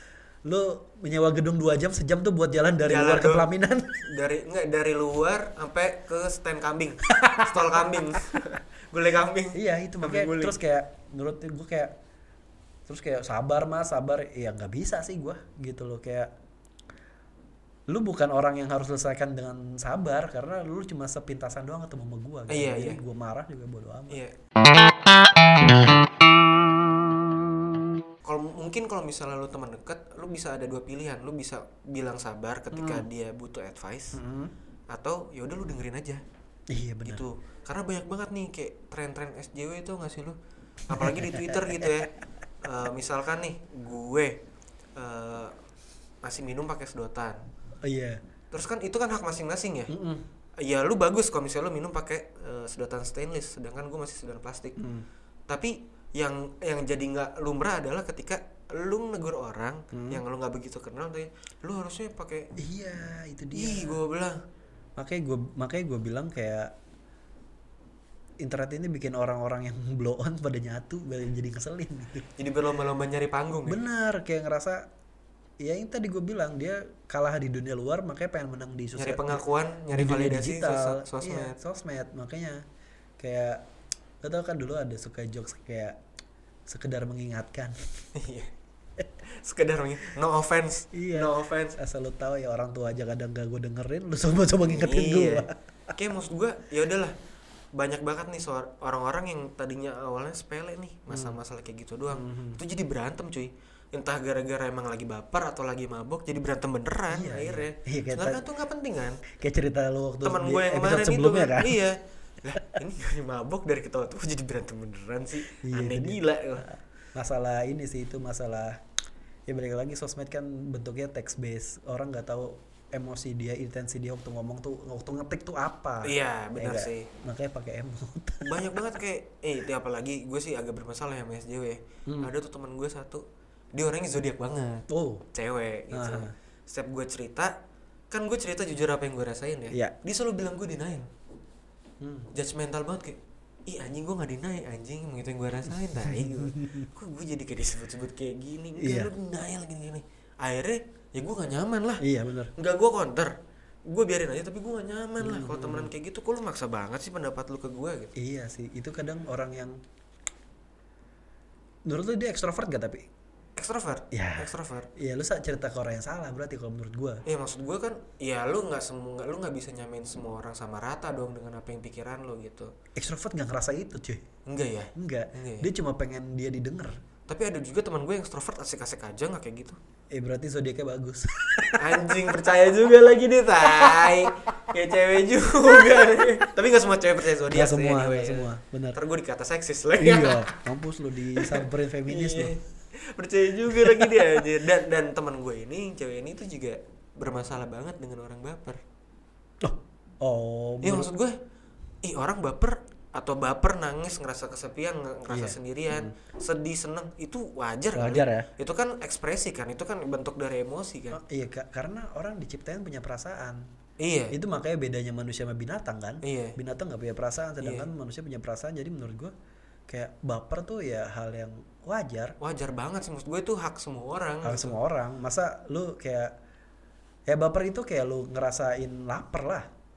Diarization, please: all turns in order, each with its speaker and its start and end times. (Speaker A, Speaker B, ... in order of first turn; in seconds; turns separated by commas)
Speaker A: 0.5-4.0, Speaker B: 2.9-3.5, Speaker B: 4.0-10.6, Speaker A: 7.1-8.0, Speaker A: 9.5-12.0, Speaker A: 12.9-16.3, Speaker A: 17.9-24.2, Speaker B: 22.5-23.0, Speaker B: 24.1-24.4, Speaker B: 28.2-34.2, Speaker A: 32.7-33.0, Speaker A: 34.1-34.5, Speaker B: 34.9-36.2, Speaker A: 36.7-37.2, Speaker B: 37.0-44.4, Speaker A: 40.9-42.1, Speaker B: 45.0-45.5, Speaker B: 46.2-47.4, Speaker A: 47.8-48.2, Speaker B: 48.5-49.9, Speaker A: 49.9-50.3, Speaker B: 50.6-54.8, Speaker A: 54.8-55.0, Speaker B: 55.5-62.5, Speaker A: 59.9-60.2, Speaker A: 62.6-64.0, Speaker B: 63.5-64.4, Speaker A: 65.0-66.7, Speaker A: 68.4-72.3, Speaker B: 72.4-73.8, Speaker A: 73.7-74.9, Speaker A: 75.6-82.6, Speaker B: 79.0-81.6, Speaker A: 83.2-83.7, Speaker A: 84.2-86.0, Speaker A: 86.7-87.8, Speaker B: 88.2-88.5, Speaker B: 89.2-91.8, Speaker A: 90.9-95.9, Speaker B: 94.6-97.2, Speaker B: 97.7-109.2, Speaker A: 101.1-101.4, Speaker A: 102.1-102.6, Speaker A: 107.1-108.4, Speaker A: 109.3-111.8, Speaker B: 110.2-116.7, Speaker A: 115.6-118.8, Speaker A: 119.5-128.9, Speaker B: 126.0-127.1, Speaker B: 128.4-137.6, Speaker A: 132.1-132.3, Speaker A: 134.9-135.2, Speaker A: 135.9-136.3, Speaker B: 138.1-141.1, Speaker A: 142.0-142.3, Speaker B: 142.3-153.3, Speaker A: 146.0-146.9, Speaker A: 148.8-149.1, Speaker A: 152.0-152.5, Speaker B: 153.9-158.1, Speaker A: 155.2-155.9, Speaker A: 158.2-159.8, Speaker A: 161.9-163.1, Speaker B: 163.6-164.9, Speaker A: 164.1-167.2, Speaker B: 167.3-172.7, Speaker A: 173.0-174.2, Speaker B: 174.5-175.7, Speaker A: 174.9-177.0, Speaker B: 177.3-179.8, Speaker A: 180.1-182.4, Speaker B: 181.8-190.5, Speaker A: 183.6-184.3, Speaker A: 185.7-186.2, Speaker A: 187.5-189.0, Speaker A: 190.0-192.5, Speaker B: 191.3-198.8, Speaker A: 193.7-194.2, Speaker A: 199.6-201.1, Speaker B: 200.8-201.4, Speaker B: 202.0-211.2, Speaker A: 205.3-206.1, Speaker A: 207.9-208.5, Speaker A: 211.1-213.7, Speaker B: 214.0-214.4, Speaker A: 214.3-219.3, Speaker B: 216.2-216.6, Speaker B: 217.6-217.9, Speaker A: 219.9-222.4, Speaker B: 222.4-224.8, Speaker A: 224.4-226.4, Speaker A: 227.3-229.7